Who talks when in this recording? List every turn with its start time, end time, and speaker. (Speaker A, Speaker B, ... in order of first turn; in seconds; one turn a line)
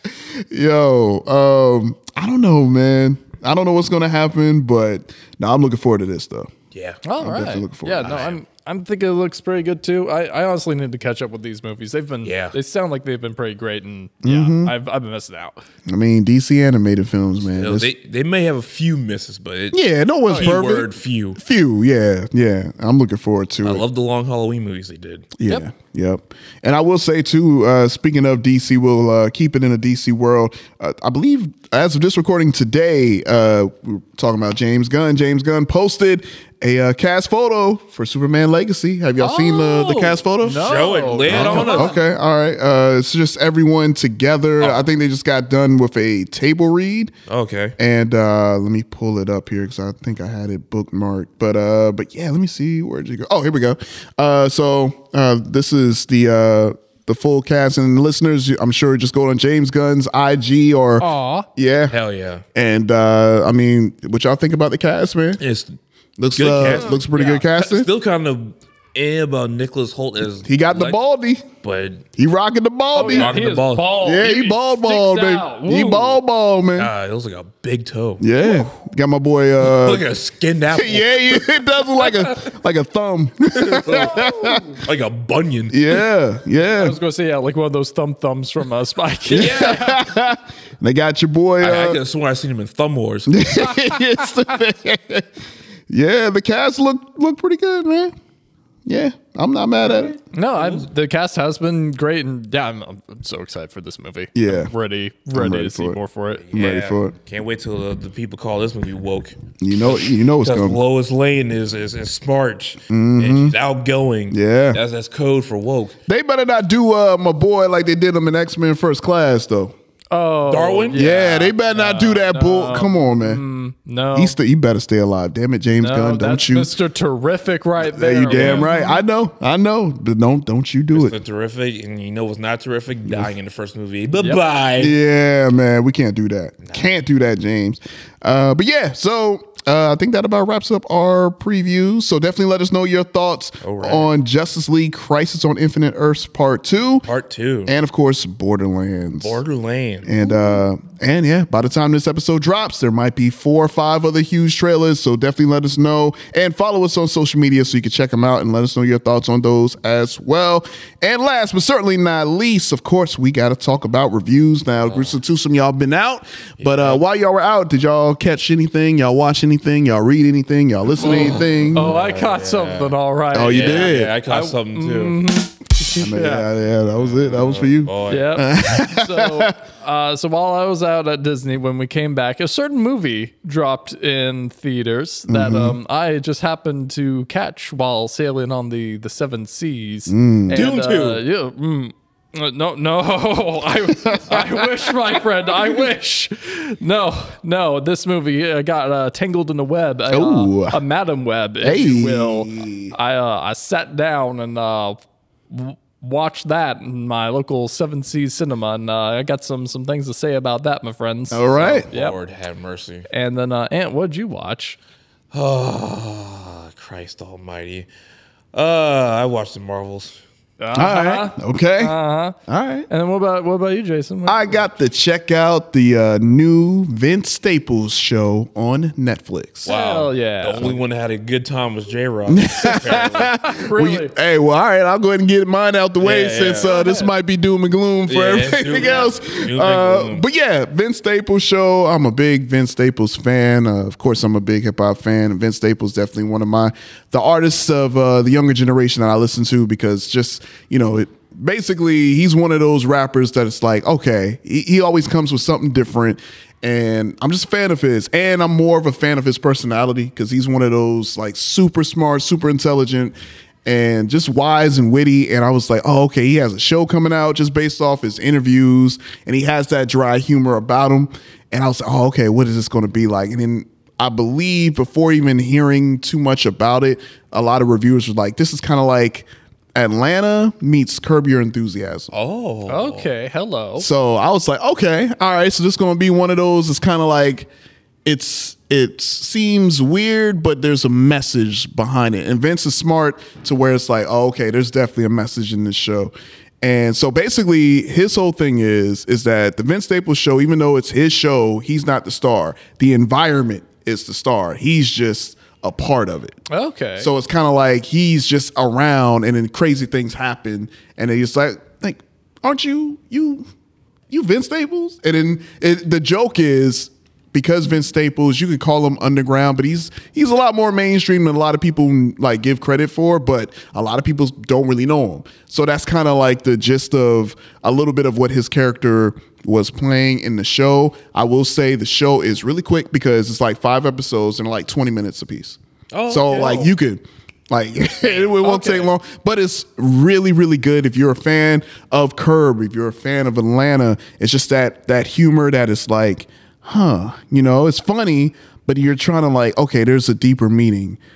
Speaker A: 0.4-6.5
Speaker B: 6.7-7.0
Speaker C: 7.0-15.6
Speaker A: 7.2-8.2
Speaker B: 8.0-8.4
Speaker B: 12.2-12.6
Speaker A: 14.2-14.7
Speaker A: 15.9-17.9
Speaker B: 17.5-21.4
Speaker A: 19.7-23.8
Speaker B: 23.6-25.3
Speaker A: 25.4-47.1
Speaker C: 39.2-42.0
Speaker B: 40.6-42.0
Speaker B: 47.3-47.8
Speaker A: 47.8-62.0
Speaker C: 61.0-61.5
Speaker B: 61.9-62.4
Speaker A: 62.5-65.4
Speaker B: 65.4-65.8
Speaker A: 66.2-67.9
Speaker B: 66.3-71.0
Speaker C: 66.7-67.4
Speaker A: 70.5-71.4
Speaker B: 71.6-72.1
Speaker A: 72.2-76.9
Speaker C: 73.0-76.2
Speaker B: 73.0-74.0
Speaker B: 76.8-78.7
Speaker A: 78.2-80.1
Speaker B: 79.6-82.4
Speaker A: 80.7-84.6
Speaker B: 83.5-86.0
Speaker C: 84.0-84.7
Speaker A: 85.7-87.0
Speaker C: 86.6-90.0
Speaker B: 89.3-90.0
Speaker A: 89.3-92.0
Speaker B: 91.6-93.4
Speaker A: 93.3-95.3
Speaker A: 95.9-98.1
Speaker A: 98.9-100.2
Speaker B: 100.1-100.9
Speaker C: 100.3-106.4
Speaker A: 104.3-104.7
Speaker A: 105.3-106.0
Speaker B: 106.4-116.0
Speaker A: 106.5-107.1
Speaker A: 109.6-110.8
Speaker A: 112.9-113.5
Speaker A: 114.3-114.8
Speaker A: 116.1-119.7
Speaker C: 120.1-124.3
Speaker B: 120.5-121.0
Speaker A: 120.9-123.4
Speaker A: 124.1-126.7
Speaker C: 125.8-129.0
Speaker A: 127.8-131.2
Speaker B: 128.3-128.7
Speaker B: 130.9-135.0
Speaker C: 134.2-134.4
Speaker A: 134.8-147.1
Speaker B: 143.6-144.1
Speaker B: 147.0-147.7
Speaker A: 147.7-149.4
Speaker B: 149.2-150.2
Speaker A: 150.0-171.9
Speaker B: 164.8-165.2
Speaker B: 166.6-167.0
Speaker C: 171.0-176.5
Speaker B: 171.0-175.2
Speaker A: 173.3-174.2
Speaker A: 175.9-179.6
Speaker B: 177.0-178.3
Speaker C: 178.1-205.0
Speaker A: 185.3-185.8
Speaker A: 190.1-190.7
Speaker B: 190.5-191.2
Speaker A: 194.0-194.6
Speaker A: 200.1-200.8
Speaker A: 201.6-202.9
Speaker C: 205.5-212.2
Speaker A: 211.3-211.9
Speaker B: 211.6-213.1
Speaker C: 213.1-214.8
Speaker B: 215.3-217.9
Speaker B: 218.5-220.2
Speaker C: 220.6-222.4
Speaker A: 220.7-222.9
Speaker C: 222.9-224.7
Speaker A: 224.3-229.7
Speaker B: 229.7-233.3
Speaker C: 229.7-230.8
Speaker A: 232.3-282.1
Speaker C: 233.2-234.1
Speaker B: 236.0-236.7
Speaker C: 236.6-237.1
Speaker B: 238.1-240.2
Speaker B: 282.1-283.1
Speaker C: 282.7-283.9
Speaker A: 283.8-287.5
Speaker A: 288.1-306.4
Speaker C: 306.5-307.1
Speaker A: 307.0-313.4
Speaker A: 314.1-351.0
Speaker B: 335.9-336.7
Speaker C: 338.4-338.9